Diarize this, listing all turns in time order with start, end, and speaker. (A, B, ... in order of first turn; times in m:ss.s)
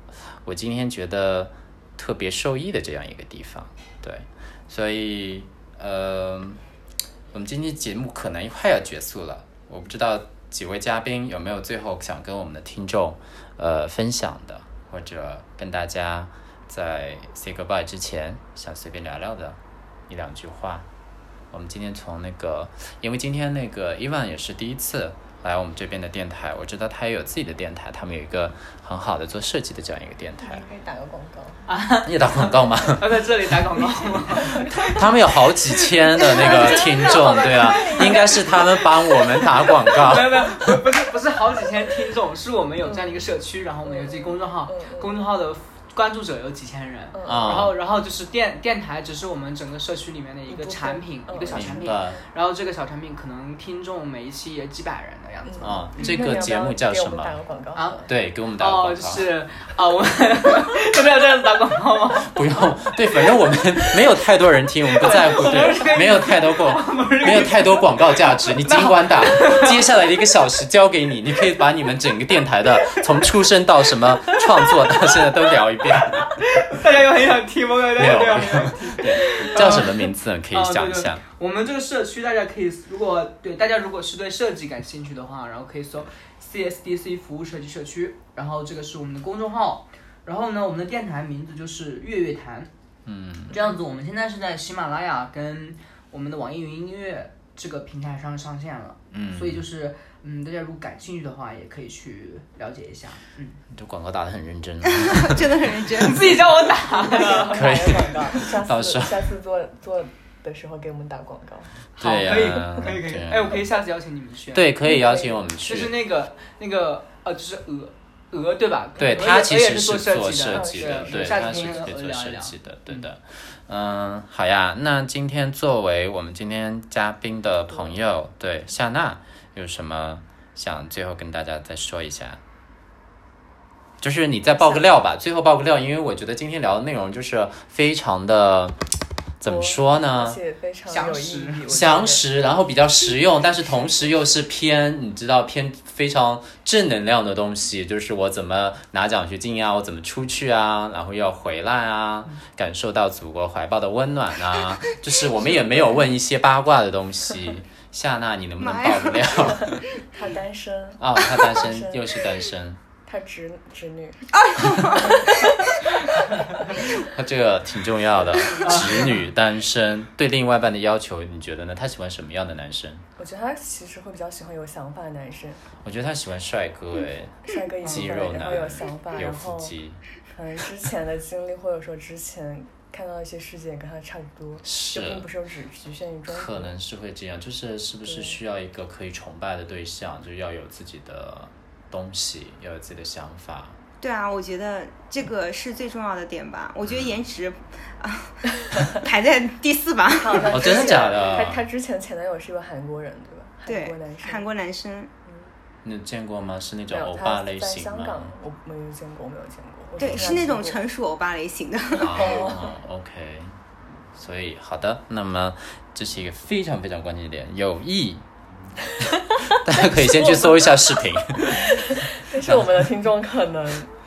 0:00.4-0:06.6 A
0:07.3-0:19.6 A
0:20.1-0:20.8 A
0:21.5-0:30.6 A
0:30.4-0:31.7 B
0:31.7-0:35.1 C
0:32.0-0:33.2 A
0:34.3-0:35.0 B
0:34.8-0:40.8 A
0:36.1-0:36.9 C
0:36.2-0:39.4 B
0:37.7-0:38.3 C
0:39.3-0:56.3 C
0:42.8-0:43.1 B
0:43.8-0:45.3 B
0:47.1-0:47.6 B
0:47.2-0:47.7 A
0:50.5-0:52.0 B
0:51.5-0:52.2 A
0:55.4-0:58.1 B
0:55.6-0:57.4 A
0:57.7-0:58.1 C
0:58.0-0:59.2 A
0:58.6-1:02.3 C
1:02.2-1:16.3 A
1:04.9-1:08.1 C
1:08.6-1:09.8 C
1:16.0-1:32.7 C
1:18.0-1:21.2 A
1:33.0-1:33.5 A
1:33.5-1:43.6 C
1:39.1-1:39.6 A
1:43.7-1:45.5 A
1:44.9-1:46.4 D
1:45.9-1:47.9 C
1:46.9-1:51.7 B
1:47.5-1:49.3 A
1:52.0-1:54.7 C
1:52.0-1:53.7 A
1:54.5-1:56.0 A
1:54.8-1:55.3 B
1:55.6-2:03.1 C
1:59.0-2:12.4 A
2:00.5-2:01.8 B
2:14.0-2:18.8 A
2:19.4-2:20.4 A
2:19.4-2:22.2 B
2:20.9-2:21.8 C
2:21.7-2:39.8 A
2:38.6-2:39.6 D
2:39.5-2:42.2 B
2:41.0-2:42.8 A
2:43.0-2:46.9 B
2:44.3-2:45.6 D
2:47.0-2:53.0 A
2:48.6-2:49.0 C
2:53.2-2:55.6 B
2:55.8-3:00.0 A
2:57.4-2:59.7 B
2:57.8-2:58.2 C
3:00.3-3:06.7 B
3:04.6-3:05.3 A
3:06.3-3:13.8 A
3:08.0-3:08.4 B
3:14.0-3:21.1 D
3:16.8-3:17.2 A
3:20.1-3:24.4 B
3:20.5-3:21.6 A
3:23.6-3:25.1 D
3:25.8-3:28.3 A
3:26.9-3:30.8 B
3:30.0-3:32.6 D
3:30.0-3:30.4 A
3:32.0-3:32.7 B
3:32.0-3:33.6 A
3:34.1-3:38.2 A
3:39.0-3:42.9 A
3:39.8-3:40.6 B
3:41.5-3:43.9 B